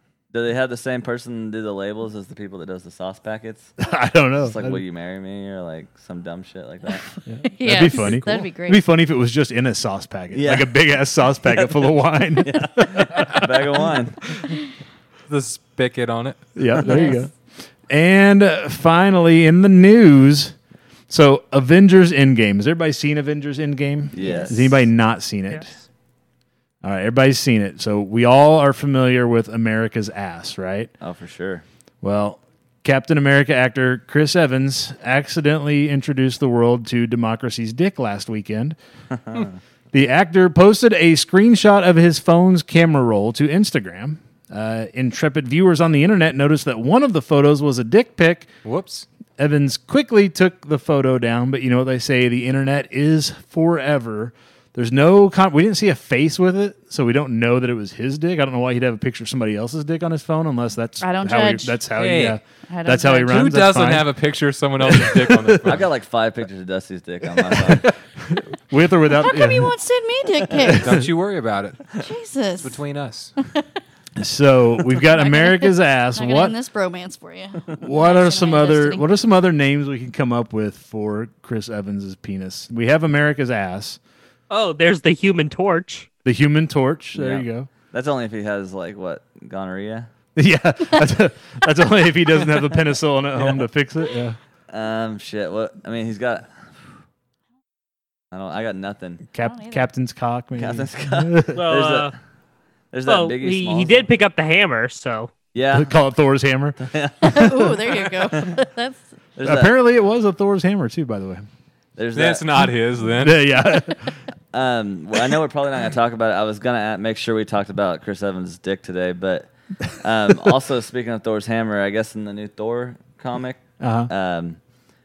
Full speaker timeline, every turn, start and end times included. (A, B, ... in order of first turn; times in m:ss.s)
0:00.3-0:03.8 A
0:03.8-0:04.8 B
0:04.4-0:07.1 A
0:07.2-0:13.5 B
0:07.5-0:08.8 C
0:10.3-0:10.8 A
0:11.5-0:14.3 A
0:15.3-0:16.4 D
0:16.6-0:17.3 B
0:16.8-0:17.2 C
0:17.9-0:20.5 B
0:21.1-0:25.7 B
0:24.1-0:24.8 A
0:24.2-0:24.5 C
0:26.8-0:30.9 B
0:31.0-0:31.6 A
0:32.0-0:38.8 B
0:39.2-0:39.5 A
0:39.9-0:48.5 B
0:48.6-0:49.0 D
0:49.4-1:04.1 B
1:01.0-1:01.8 C
1:01.9-1:02.4 D
1:02.7-1:03.4 C
1:03.3-1:05.9 D
1:04.8-1:05.8 B
1:05.6-1:07.9 A
1:07.4-1:09.7 B
1:09.1-1:10.8 C
1:10.7-1:11.1 B
1:10.8-1:11.9 D
1:12.0-1:12.8 C
1:12.6-1:13.3 D
1:14.2-1:16.6 B
1:15.1-1:19.1 C
1:17.8-1:24.0 B
1:24.5-1:26.1 E
1:26.2-1:27.7 B
1:27.1-1:30.1 A
1:30.4-1:34.4 B
1:34.7-1:36.5 A
1:38.3-1:39.2 A
1:39.3-1:41.6 B
1:39.4-1:39.9 C
1:40.6-1:42.1 A
1:41.5-1:42.1 E
1:42.9-1:44.1 A
1:43.0-1:45.3 E
1:45.5-1:45.9 A
1:45.7-1:46.8 B
1:46.8-1:47.8 A
1:47.2-1:49.1 C
1:49.4-1:49.7 A
1:49.4-1:51.4 B
1:52.0-1:52.6 A
1:52.1-1:53.4 D
1:53.1-1:54.1 B
1:54.5-2:04.6 A
2:03.8-2:04.1 B